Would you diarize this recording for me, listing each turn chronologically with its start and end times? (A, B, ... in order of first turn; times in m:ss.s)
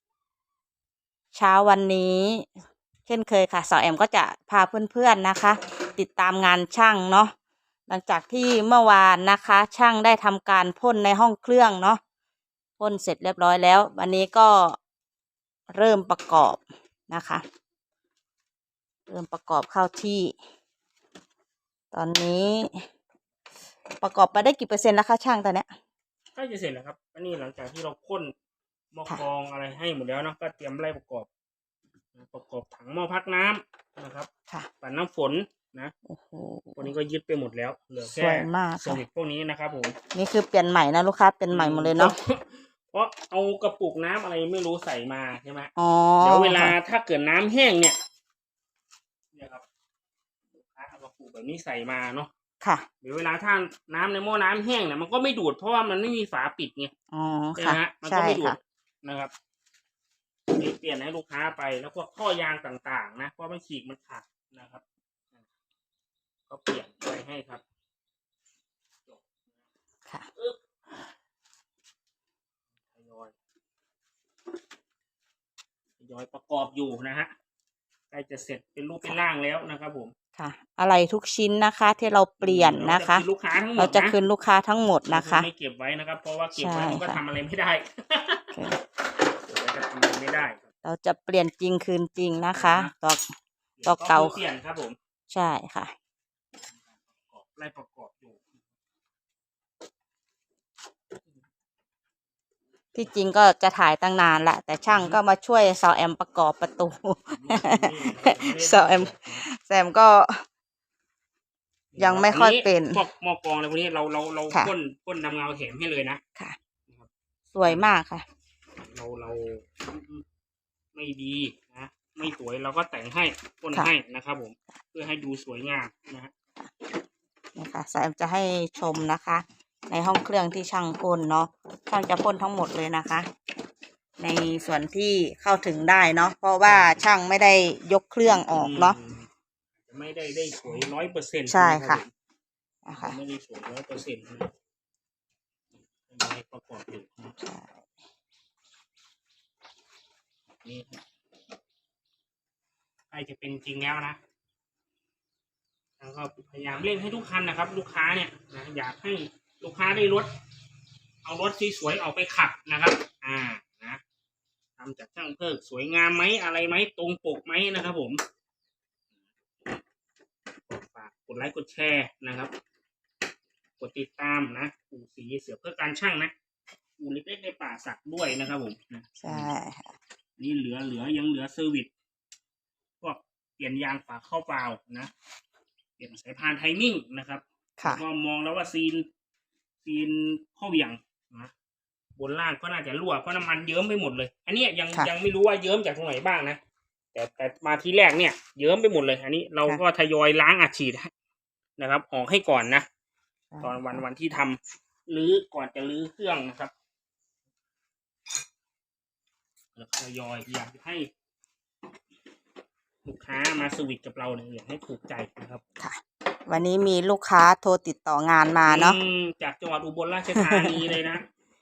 0:01.3-0:02.5 A
0:03.1-0:07.3 A
0:07.9-0:12.0 A
0:12.8-0:14.8 A
0:15.7-0:17.4 A
0:19.1-0:20.4 A
0:21.9-0:22.9 A
0:24.0-0:25.7 A
0:26.3-0:28.3 B
0:28.9-0:31.3 B
0:32.1-0:34.3 B
0:34.8-0:35.9 B
0:36.1-0:36.9 A
0:36.8-0:40.0 B
0:38.0-0:39.0 A
0:40.1-0:42.1 A
0:41.5-0:48.0 B
0:45.8-0:46.8 A
0:49.3-0:49.6 B
0:50.5-0:52.3 B
0:52.6-0:52.9 A
0:53.0-0:56.9 B
0:57.1-0:58.6 A
0:57.6-0:59.3 B
1:00.5-1:04.8 B
1:06.5-1:07.6 B
1:12.9-1:13.3 B
1:16.0-1:17.3 B
1:18.1-1:20.1 B
1:20.4-1:23.2 A
1:22.4-1:24.2 B
1:23.8-1:25.5 A
1:25.1-1:28.5 B
1:26.6-1:27.2 A
1:28.5-1:28.8 A
1:29.4-1:30.6 B
1:30.8-1:33.3 A
1:32.5-1:32.9 B
1:33.8-1:35.0 B
1:33.8-1:34.4 A
1:35.3-1:35.9 A
1:36.8-1:38.4 B
1:42.9-1:50.4 A
1:44.9-1:45.2 B
1:47.3-1:49.4 B
1:51.9-1:56.2 B
1:52.0-1:53.0 A
1:57.5-1:58.2 A
1:58.8-2:00.2 B
2:00.9-2:06.3 B
2:07.6-2:13.3 A
2:14.2-2:19.0 A
2:16.6-2:17.1 B
2:18.5-2:19.3 B
2:19.8-2:22.1 B
2:21.5-2:22.0 A
2:22.8-2:23.2 A
2:22.9-2:24.5 B
2:26.1-2:27.4 B
2:27.4-2:27.8 A
2:30.6-2:31.0 B
2:33.1-2:34.2 B
2:36.0-2:40.3 B
2:41.2-2:44.0 B
2:44.8-2:48.2 B
2:50.7-2:52.5 B
2:53.8-2:56.3 B
2:57.0-2:59.5 B
2:59.2-2:59.9 A
3:00.4-3:01.9 B
3:03.0-3:05.1 B
3:06.0-3:09.1 B
3:07.8-3:08.0 A
3:09.8-3:11.5 B
3:12.2-3:16.6 B
3:17.1-3:21.1 B
3:21.8-3:22.9 B
3:23.5-3:24.0 A
3:23.6-3:26.7 B
3:29.7-3:31.1 B
3:33.0-3:35.6 B
3:35.8-3:39.0 A
3:38.6-3:41.2 B
3:40.3-3:40.9 A